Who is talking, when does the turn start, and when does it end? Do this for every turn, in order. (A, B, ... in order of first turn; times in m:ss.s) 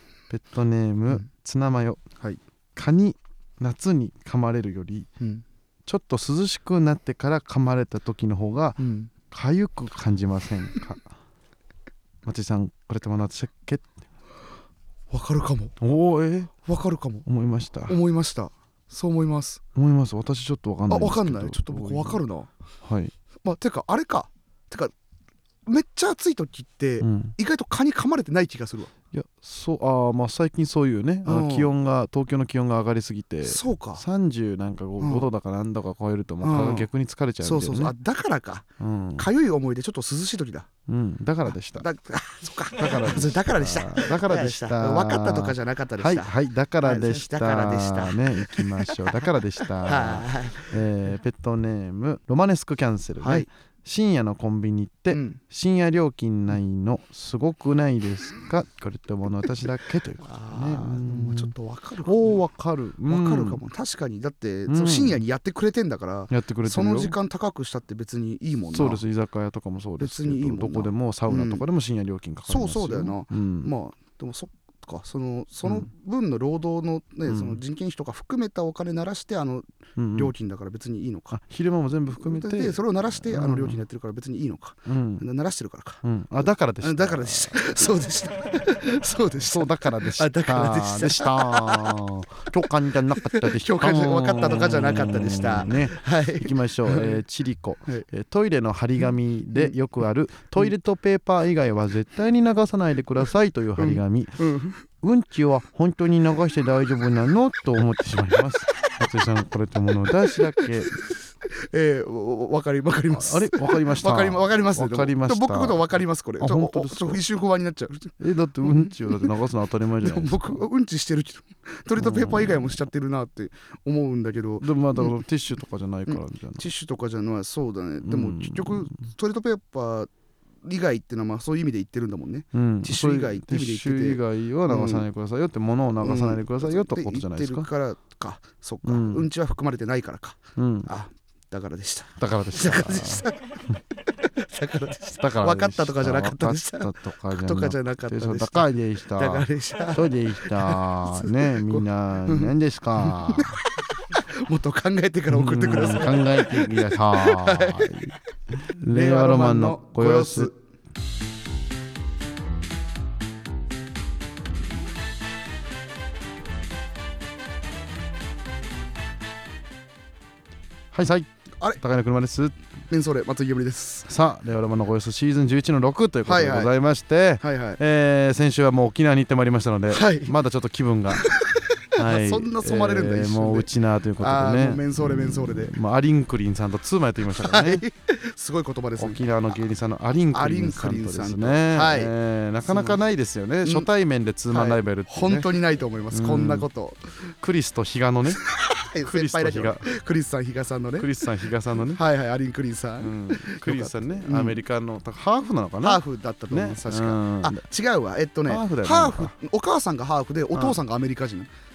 0:00.3-0:02.0 A
0:02.8-0:05.1 A
0:05.9-0:11.1 A
0:08.8-0:09.1 B
0:12.2-0:13.9 A
0:15.1-0:15.8 B
0:15.8-0:16.6 A
0:16.7-0:17.2 B
0:17.2-0:18.0 A
0:17.9-0:19.6 B
0:19.8-0:22.2 A
0:20.9-0:22.5 B
0:22.8-0:23.1 A
0:23.4-0:24.9 B
0:25.7-0:28.9 B
0:27.0-0:27.4 A
0:29.1-0:37.9 A
0:31.3-0:31.7 B
0:33.4-0:34.0 B
0:35.0-0:35.3 B
0:36.4-0:36.9 B
0:37.4-0:38.7 B
0:38.8-0:39.3 A
0:39.2-0:40.7 B
0:40.9-0:41.9 A
0:41.7-0:50.7 B
0:42.8-1:01.5 A
0:53.2-0:53.5 B
0:55.1-0:55.4 B
1:00.2-1:02.4 B
1:02.0-1:03.6 A
1:03.1-1:09.0 B
1:04.7-1:05.2 A
1:06.3-1:07.2 A
1:08.7-1:13.7 A
1:10.0-1:11.6 B
1:12.5-1:19.6 B
1:17.3-1:17.6 A
1:20.0-1:20.3 A
1:20.2-1:21.4 B
1:21.3-1:23.8 A
1:22.1-1:32.0 B
1:24.9-1:25.2 A
1:26.0-1:27.6 A
1:29.5-1:44.4 A
1:33.2-1:37.2 B
1:39.0-1:39.8 B
1:43.8-1:44.8 B
1:45.0-1:51.0 A
1:50.4-1:50.7 B
1:51.6-1:59.3 B
1:53.1-1:55.8 A
1:56.4-1:57.2 A
1:58.2-2:00.6 A
2:00.0-2:05.2 B
2:02.0-2:02.8 A
2:04.6-2:06.7 A
2:06.1-2:10.1 B
2:08.0-2:09.0 A
2:10.6-2:15.1 B
2:12.5-2:17.7 A
2:16.0-2:38.0 B
2:18.8-2:19.3 A
2:20.6-2:20.9 A
2:22.2-2:23.8 A
2:25.2-2:33.6 A
2:35.3-2:40.5 A
2:38.8-2:40.5 B
2:50.9-2:52.5 A
2:52.9-2:54.1 B
2:54.1-3:01.3 A
2:56.3-2:56.7 B
2:57.4-2:57.8 B
2:59.9-3:00.3 B
3:01.2-3:05.7 B
3:02.0-3:07.8 A
3:07.2-3:09.2 B
3:09.0-3:15.5 A
3:10.3-3:12.1 B
3:12.7-3:13.0 B
3:14.5-3:17.0 B
3:16.1-3:16.7 A
3:17.4-3:18.4 A
3:18.4-3:21.1 B
3:19.0-3:19.9 A
3:21.0-3:22.0 A
3:21.9-3:24.6 B
3:23.0-3:27.6 A
3:25.8-3:31.5 B
3:28.5-3:29.3 A